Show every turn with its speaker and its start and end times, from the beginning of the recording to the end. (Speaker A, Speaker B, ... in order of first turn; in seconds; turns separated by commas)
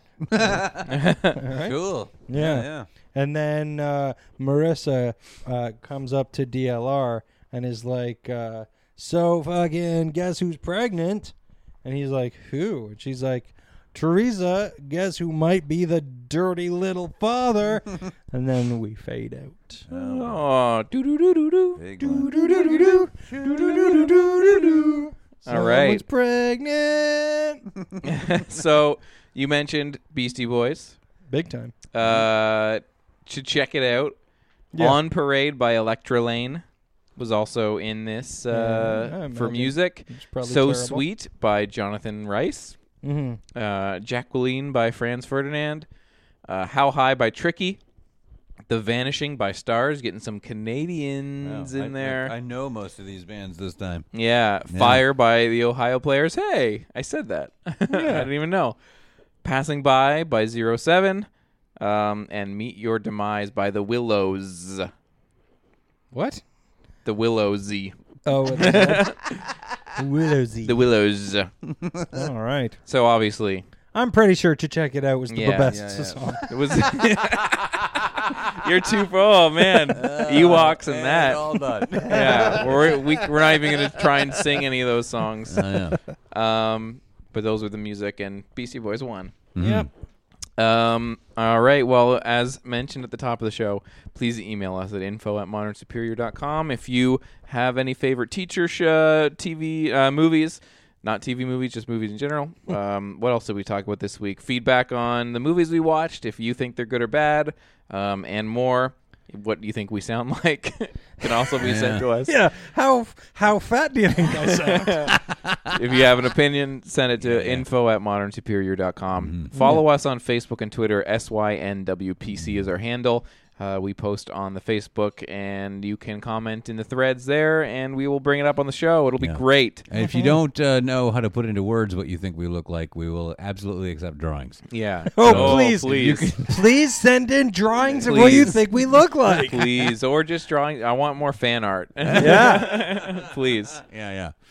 Speaker A: 0.2-2.9, Speaker B: 0.3-0.6, Speaker C: 0.9-1.4, Speaker B: 1.3-19.8, Speaker A: 19.9-20.4, Speaker C: 19.9-21.8, Speaker A: 21.8-25.0, Speaker B: 22.0-27.6, Speaker C: 25.4-26.0, Speaker A: 27.8-28.1, Speaker C: 28.0-31.0, Speaker B: 31.3-31.7, Speaker C: 31.9-34.1, Speaker B: 34.7-35.0, Speaker C: 34.8-36.6, Speaker C: 37.2-42.8, Speaker B: 38.5-41.0, Speaker B: 43.0-43.4, Speaker C: 43.5-45.9, Speaker C: 46.5-47.8, Speaker C: 48.7-52.3, Speaker A: 51.4-54.1, Speaker C: 54.1-58.8, Speaker A: 54.7-55.0, Speaker B: 57.9-58.3, Speaker C: 59.4-61.3, Speaker C: 61.8-64.9, Speaker B: 66.1-66.4, Speaker C: 67.0-67.9, Speaker B: 68.2-69.1, Speaker C: 68.5-69.5, Speaker B: 70.0-70.7, Speaker C: 70.6-71.5, Speaker A: 71.7-72.1, Speaker B: 72.1-72.8, Speaker C: 72.9-73.6, Speaker B: 73.9-76.5, Speaker C: 75.3-75.7, Speaker A: 75.7-78.5, Speaker C: 76.5-89.3, Speaker A: 79.9-84.6, Speaker B: 82.1-82.6, Speaker A: 85.5-86.0, Speaker A: 89.5-89.9, Speaker B: 89.6-89.9, Speaker C: 90.6-112.3, Speaker A: 111.6-112.0, Speaker B: 112.3-115.2, Speaker C: 114.4-115.1, Speaker C: 115.7-129.8, Speaker A: 117.2-117.7, Speaker A: 119.2-119.8, Speaker A: 122.3-122.6, Speaker A: 129.2-134.6, Speaker B: 129.9-130.4, Speaker C: 134.7-136.4, Speaker B: 135.1-139.9, Speaker A: 135.2-136.5, Speaker A: 138.0-138.6, Speaker C: 138.1-143.8, Speaker A: 142.0-144.3, Speaker B: 142.2-142.7